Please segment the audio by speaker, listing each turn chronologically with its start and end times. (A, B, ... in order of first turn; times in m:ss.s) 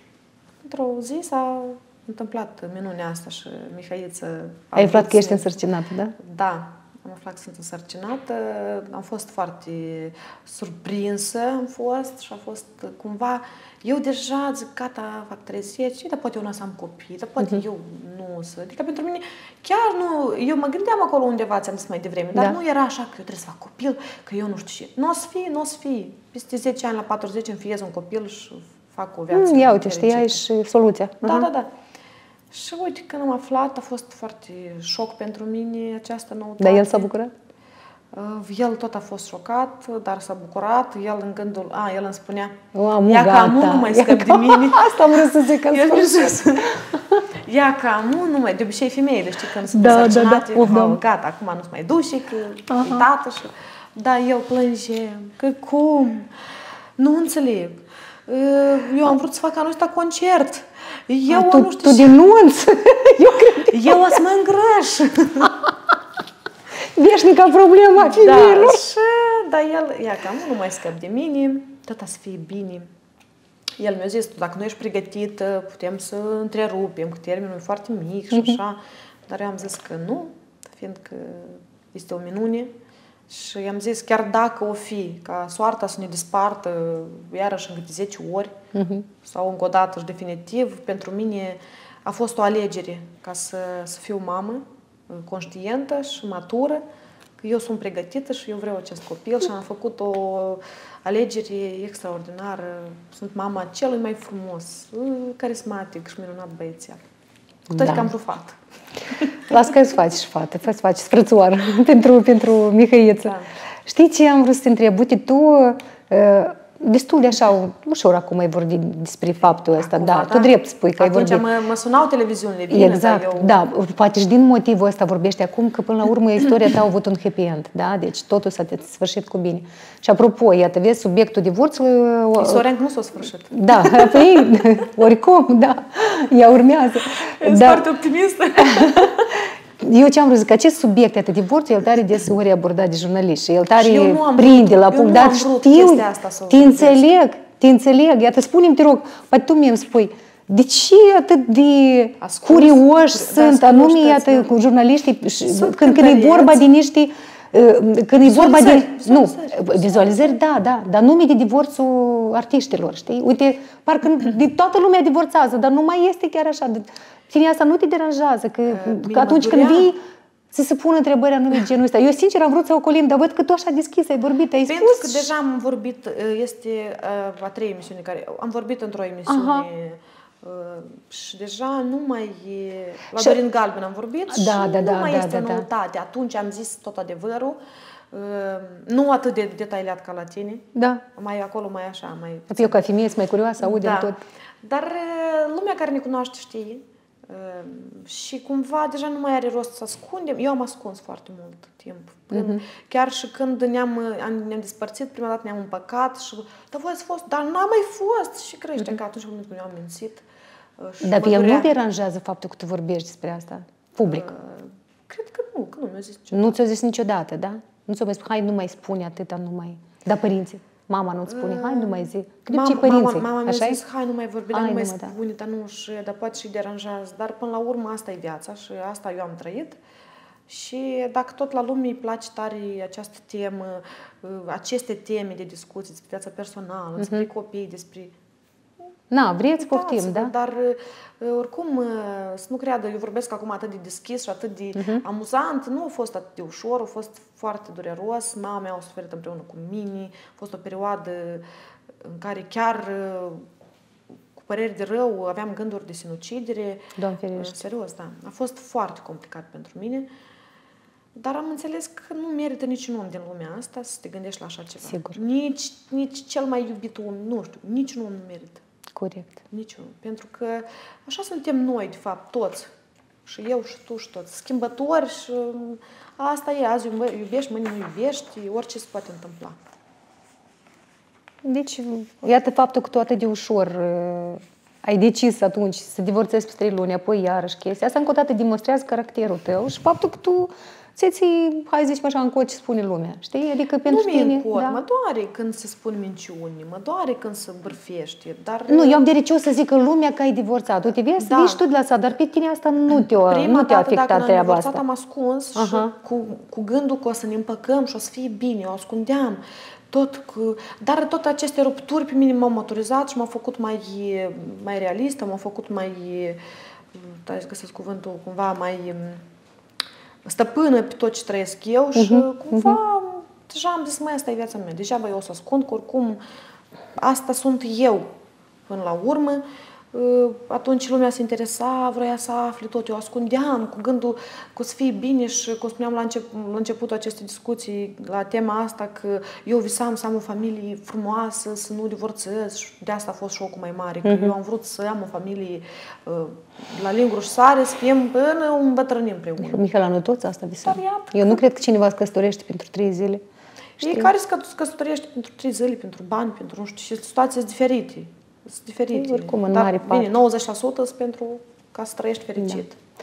0:00.6-0:05.6 A
0:04.8-0:06.2 B
0:06.2-0:30.5 A
0:29.3-0:31.5 B
0:31.2-0:31.7 A
0:32.5-0:37.1 A
0:36.6-0:37.3 B
0:38.1-0:56.3 A
0:42.7-0:47.2 B
0:49.7-0:51.0 B
0:52.7-0:53.0 B
0:57.0-1:02.2 A
1:01.3-1:04.2 B
1:03.7-1:05.6 A
1:07.0-1:08.8 B
1:08.0-1:12.9 A
1:13.8-1:22.7 A
1:18.3-1:18.6 B
1:23.3-1:28.6 A
1:28.7-1:29.1 B
1:29.2-1:36.8 A
1:37.4-1:47.0 A
1:47.7-1:48.6 A
1:47.7-1:48.1 B
1:49.5-1:53.4 B
1:53.2-1:53.5 A
1:53.9-2:01.4 B
1:59.8-2:03.6 A
2:02.7-2:12.6 B
2:12.4-2:14.5 A
2:13.5-2:17.9 B
2:17.1-2:19.4 A
2:18.6-2:50.0 B
2:23.8-2:27.0 A
2:32.2-2:34.5 A
2:35.5-2:36.6 A
2:38.2-2:40.4 A
2:48.7-2:50.0 A
2:50.5-2:55.3 B
2:54.7-3:07.6 A
2:59.3-2:59.7 B
3:04.3-3:05.7 B
3:08.1-3:12.8 A
3:10.8-3:11.0 B
3:12.5-3:14.2 B
3:13.6-3:30.2 A
3:22.3-3:22.6 B
3:30.8-3:31.7 A
3:31.0-3:34.3 B
3:34.1-3:36.6 A
3:36.3-3:43.8 B
3:41.3-3:49.8 A
3:44.5-3:45.2 B
3:50.5-3:58.1 A
3:57.0-3:57.3 B
3:59.1-4:00.3 B
3:59.6-4:11.4 A
4:04.8-4:05.0 B
4:12.0-4:13.4 A
4:14.4-4:20.1 A
4:17.0-4:17.6 B
4:21.2-4:28.6 A
4:24.9-4:25.2 B
4:29.0-4:29.4 B
4:29.5-4:32.7 A
4:33.3-4:39.6 A
4:41.4-4:54.8 B
4:53.8-4:59.0 A
4:58.7-5:04.8 B
5:01.2-5:01.6 A
5:03.2-5:16.4 A
5:05.6-5:05.9 B
5:16.9-5:19.2 A
5:20.2-5:26.2 A
5:22.0-5:22.8 B
5:27.0-5:28.1 A
5:28.7-5:49.6 A
5:44.0-5:44.4 B
5:49.4-5:53.2 B
5:50.6-5:51.4 A
5:53.8-5:54.1 B
5:53.8-6:02.8 A
5:58.9-6:00.1 B